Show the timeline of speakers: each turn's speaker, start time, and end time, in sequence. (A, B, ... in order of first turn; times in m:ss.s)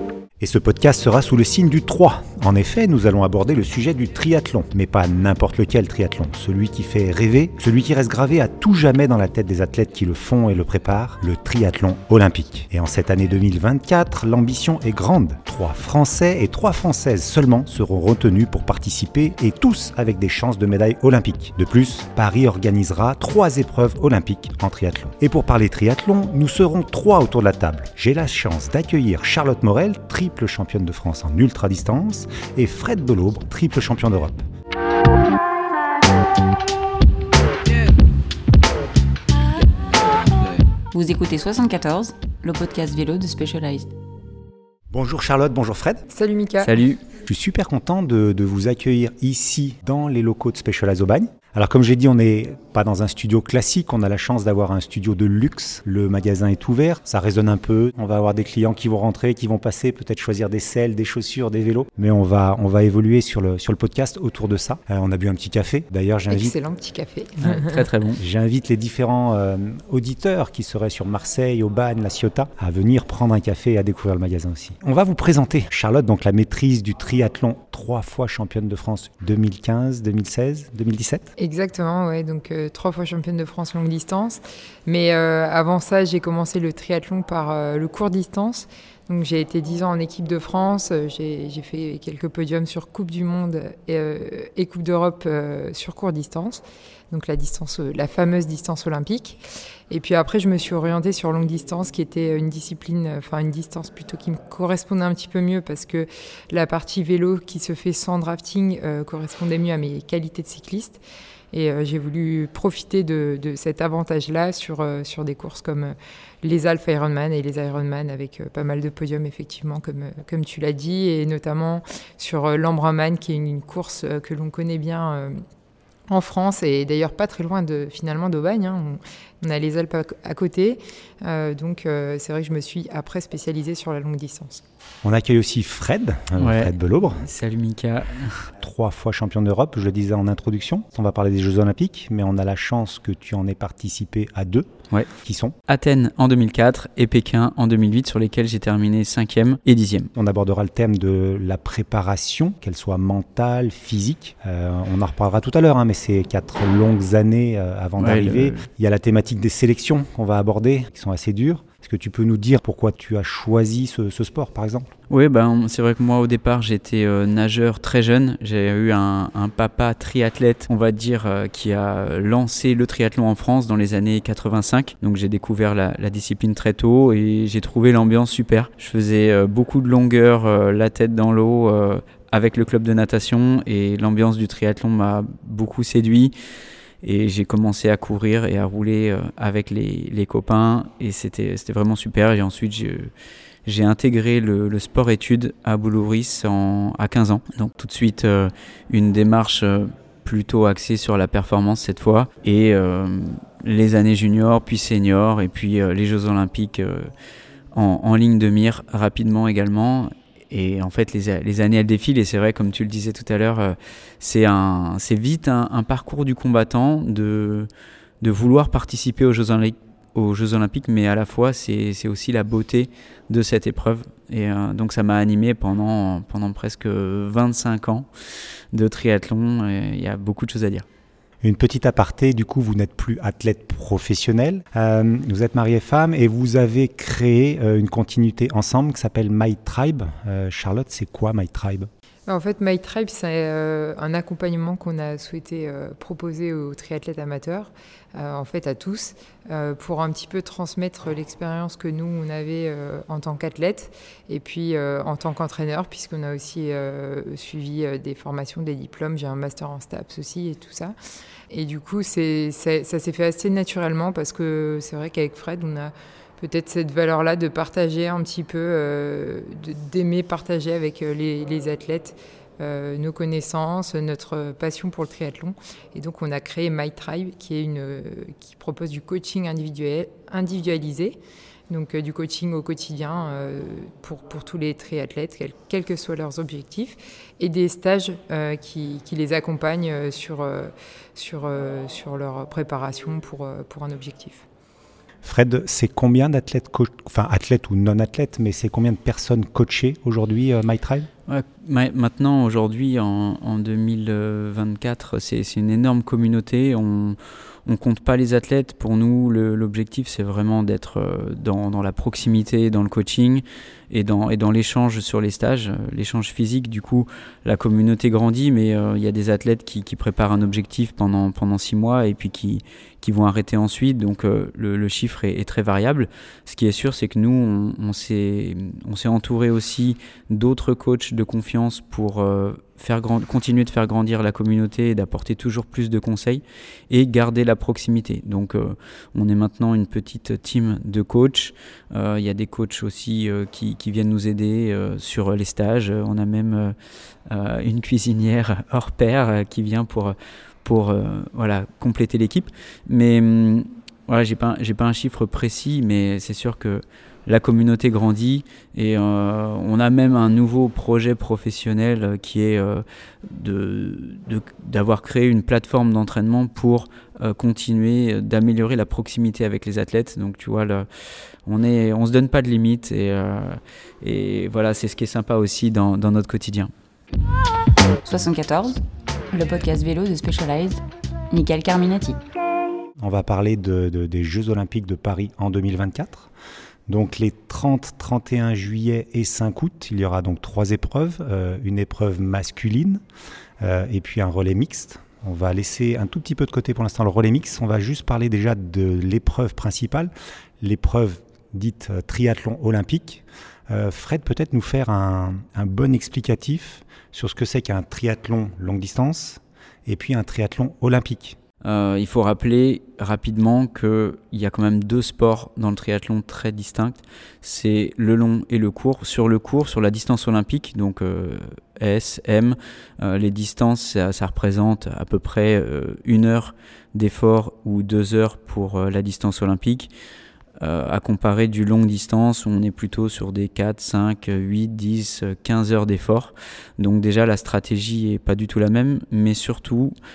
0:00.4-0:34.5 A
0:40.9-0:43.9 B
0:44.9-0:46.0 A
0:46.1-0:46.8 C
0:46.6-0:47.0 D
0:47.2-1:06.5 A
1:06.3-1:07.8 C
1:07.4-1:08.2 D
1:08.2-1:21.3 A
1:21.4-1:39.4 C
1:39.9-1:51.0 C
1:51.5-2:05.4 C
2:06.1-2:14.6 C
2:15.0-2:17.3 A
2:16.4-2:18.5 D
2:18.6-2:24.7 A
2:25.2-2:25.6 A
2:25.7-2:30.1 D
2:30.1-2:44.9 A
2:38.0-2:38.6 D
2:45.1-3:06.3 D
3:07.0-3:13.1 D
3:13.6-3:27.1 D
3:27.7-3:37.7 D
3:38.2-3:48.1 D
3:48.7-3:50.8 D
3:51.4-4:01.9 A
4:02.3-4:20.9 C
4:21.5-4:41.2 C
4:41.7-4:54.4 C
4:55.2-5:01.1 A
5:01.3-5:46.7 D
5:47.3-6:10.9 D
6:11.4-6:16.7 D
6:18.0-6:22.2 B
6:23.0-6:26.3 A
6:26.9-6:33.0 A
6:33.6-6:51.4 A
6:51.6-7:09.9 D
7:10.6-7:19.9 D